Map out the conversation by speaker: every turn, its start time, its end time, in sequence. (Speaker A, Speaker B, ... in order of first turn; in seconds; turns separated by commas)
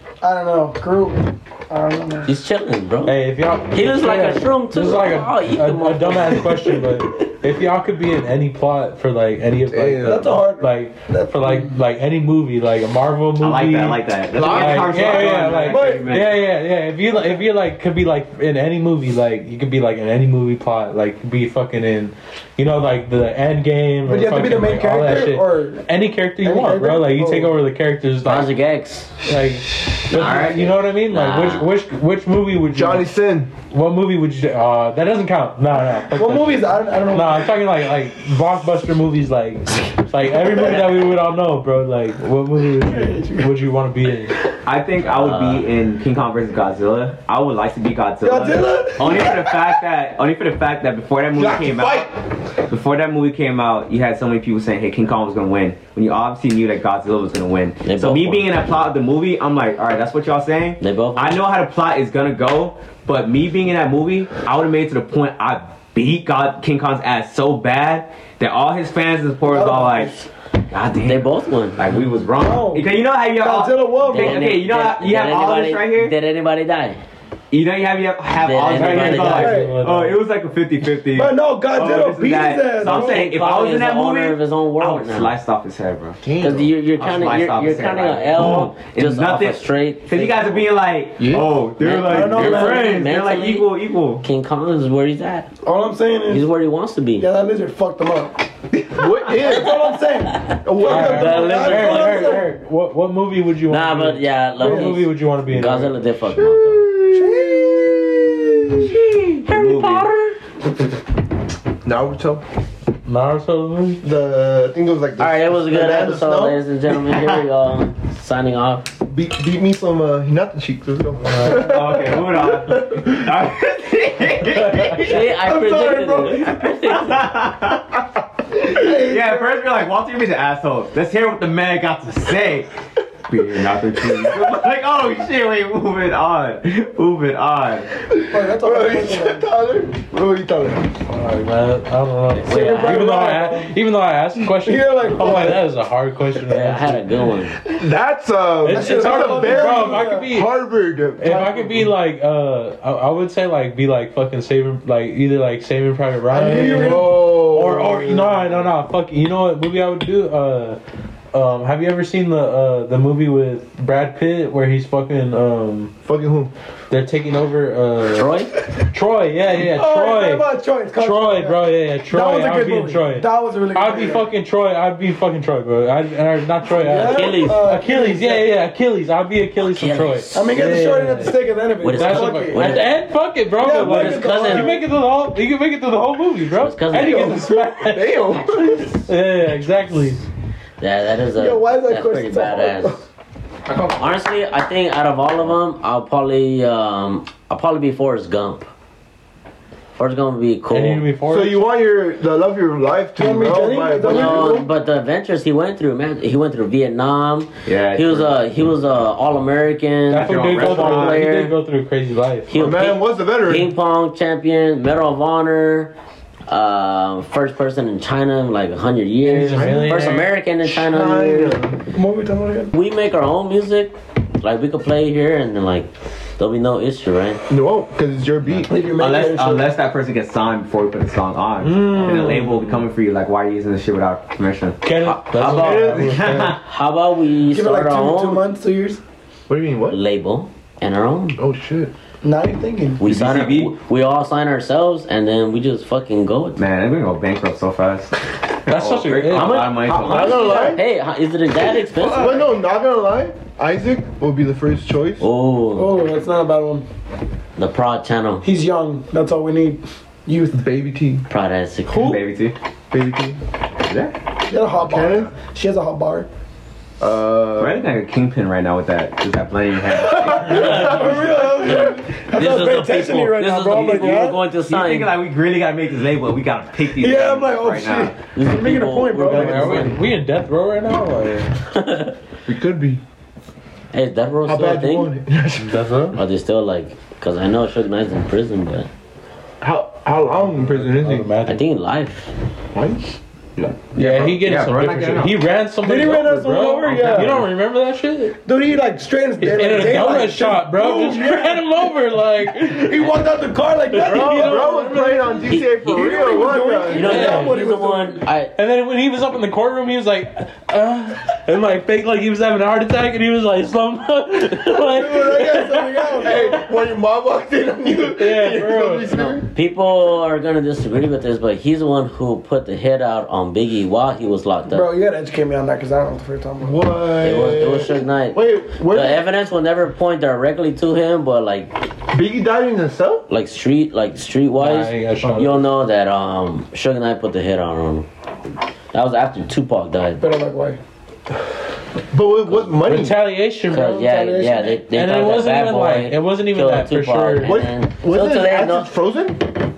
Speaker A: 0.2-2.3, Speaker B: 2.2-3.2, Speaker C: 3.0-28.5, Speaker B: 3.7-7.3, Speaker D: 9.7-10.4, Speaker A: 10.0-11.7, Speaker E: 13.4-16.4, Speaker D: 14.4-15.6, Speaker A: 15.7-16.2, Speaker A: 17.1-17.4, Speaker A: 24.1-25.9, Speaker A: 26.4-27.6, Speaker B: 28.2-29.2, Speaker C: 29.2-33.1, Speaker E: 30.1-30.7, Speaker B: 30.1-31.7, Speaker D: 32.7-33.5, Speaker C: 33.6-44.4, Speaker A: 36.1-37.6, Speaker A: 40.5-40.8, Speaker A: 42.8-43.5, Speaker E: 44.6-52.1, Speaker B: 45.1-45.7, Speaker A: 48.2-49.7, Speaker D: 51.4-52.1, Speaker E: 52.7-76.1, Speaker B: 57.9-58.5, Speaker B: 60.8-61.4, Speaker A: 69.5-70.3, Speaker B: 71.0-71.8, Speaker A: 72.4-74.6, Speaker B: 74.1-77.0, Speaker E: 77.5-86.2, Speaker B: 78.4-79.6, Speaker C: 78.8-80.2, Speaker A: 79.2-79.8, Speaker A: 81.1-83.2, Speaker B: 82.8-85.3, Speaker D: 86.2-86.7, Speaker B: 86.4-90.7, Speaker E: 87.0-94.2, Speaker D: 91.2-91.5, Speaker B: 91.8-93.7, Speaker A: 92.0-93.0, Speaker B: 94.2-95.5, Speaker A: 95.6-96.5, Speaker B: 96.3-97.3, Speaker A: 97.2-98.5, Speaker D: 98.9-99.9, Speaker A: 99.3-102.5, Speaker D: 100.6-101.5, Speaker C: 100.8-106.0, Speaker B: 101.1-102.4, Speaker B: 103.7-106.9, Speaker A: 104.6-105.0, Speaker D: 106.4-109.0, Speaker A: 107.1-107.9, Speaker E: 109.5-110.1, Speaker B: 109.5-110.3, Speaker D: 111.8-112.4, Speaker C: 113.1-114.0, Speaker D: 114.0-116.6, Speaker B: 115.2-119.0, Speaker D: 119.1-123.3, Speaker C: 121.2-121.7, Speaker E: 121.4-125.3, Speaker C: 124.6-125.0, Speaker B: 125.0-127.3, Speaker A: 125.2-126.6, Speaker E: 126.5-128.1, Speaker E: 128.6-132.7, Speaker A: 128.6-129.6, Speaker E: 133.3-137.9, Speaker D: 134.1-134.5, Speaker D: 138.1-140.9, Speaker A: 138.3-139.5, Speaker C: 141.1-147.1, Speaker A: 142.5-143.7, Speaker B: 142.5-143.0, Speaker A: 144.5-145.6, Speaker B: 146.5-147.6, Speaker D: 147.7-151.5, Speaker C: 148.6-150.5, Speaker A: 148.7-150.3, Speaker C: 151.2-160.8, Speaker A: 151.2-151.8, Speaker A: 156.3-157.2, Speaker D: 156.6-158.4, Speaker C: 161.3-165.9, Speaker D: 166.1-166.5, Speaker C: 166.9-181.4, Speaker B: 168.1-168.6, Speaker A: 169.6-174.3, Speaker A: 176.7-178.5, Speaker B: 176.8-177.8, Speaker B: 179.6-180.6, Speaker A: 180.3-182.9, Speaker B: 181.8-182.9, Speaker C: 181.9-188.2, Speaker A: 183.6-184.8, Speaker B: 183.7-184.8, Speaker B: 186.5-187.3, Speaker A: 186.9-187.7, Speaker D: 187.8-189.0, Speaker C: 189.0-190.2, Speaker B: 190.8-193.0, Speaker A: 191.4-193.0, Speaker B: 193.7-198.7, Speaker B: 200.0-201.0, Speaker C: 200.7-201.6, Speaker D: 201.3-204.7, Speaker A: 203.2-204.6, Speaker B: 204.0-211.6, Speaker E: 207.7-208.3, Speaker C: 210.1-212.7, Speaker E: 210.1-211.3, Speaker B: 212.5-215.9, Speaker D: 212.5-213.7, Speaker B: 216.5-221.6, Speaker C: 219.2-220.3, Speaker D: 220.7-221.8, Speaker A: 221.9-222.7, Speaker B: 222.7-227.4, Speaker D: 227.5-228.8, Speaker E: 228.5-236.6, Speaker A: 228.7-229.7, Speaker C: 231.6-232.6, Speaker C: 234.8-236.6, Speaker B: 235.1-238.5, Speaker D: 235.4-236.4, Speaker A: 237.5-239.0, Speaker D: 239.5-240.0, Speaker B: 239.9-241.4, Speaker D: 241.4-241.9, Speaker A: 242.2-243.0, Speaker B: 243.0-246.6, Speaker E: 243.0-243.8, Speaker E: 246.6-250.6, Speaker C: 248.7-250.6, Speaker B: 249.3-252.4, Speaker D: 249.9-250.8, Speaker A: 250.1-250.8, Speaker A: 251.6-252.4, Speaker D: 252.1-255.3, Speaker B: 255.2-256.0, Speaker A: 255.8-256.9, Speaker B: 257.6-258.5, Speaker A: 258.4-260.6, Speaker D: 260.5-261.2, Speaker B: 261.3-262.2, Speaker E: 261.9-262.6, Speaker D: 262.9-263.4, Speaker E: 263.9-264.1, Speaker A: 264.5-266.3, Speaker D: 264.8-265.3, Speaker D: 267.0-267.8, Speaker E: 267.6-271.0, Speaker A: 270.0-274.4, Speaker B: 270.5-275.1, Speaker D: 270.5-271.8, Speaker E: 274.6-278.1, Speaker A: 277.0-280.0, Speaker B: 278.4-280.0, Speaker C: 279.2-281.6, Speaker B: 281.7-282.1, Speaker D: 282.5-283.0, Speaker B: 283.9-285.1, Speaker D: 284.4-285.9, Speaker C: 285.6-286.2, Speaker B: 286.1-288.9, Speaker D: 289.6-291.3, Speaker C: 290.5-291.6, Speaker B: 291.5-292.3, Speaker D: 292.7-293.0, Speaker E: 293.9-295.4, Speaker C: 293.9-298.4, Speaker A: 295.8-297.5, Speaker A: 298.4-301.9, Speaker C: 299.4-303.3, Speaker A: 302.6-304.8, Speaker C: 303.9-305.5, Speaker D: 304.1-307.2, Speaker B: 305.4-306.1, Speaker A: 305.9-308.2, Speaker B: 306.9-308.5, Speaker C: 307.0-307.6, Speaker C: 308.6-316.6, Speaker A: 314.8-316.6, Speaker D: 316.2-319.5, Speaker C: 318.1-319.1, Speaker B: 319.1-324.9, Speaker A: 324.7-326.8, Speaker D: 326.6-329.3, Speaker B: 327.2-331.7, Speaker D: 332.1-333.2, Speaker B: 333.3-338.1, Speaker C: 334.6-335.6, Speaker B: 338.9-340.2, Speaker A: 340.2-340.8, Speaker D: 342.1-343.2, Speaker C: 342.8-347.6, Speaker B: 343.7-348.9, Speaker A: 344.4-344.7, Speaker D: 347.4-349.5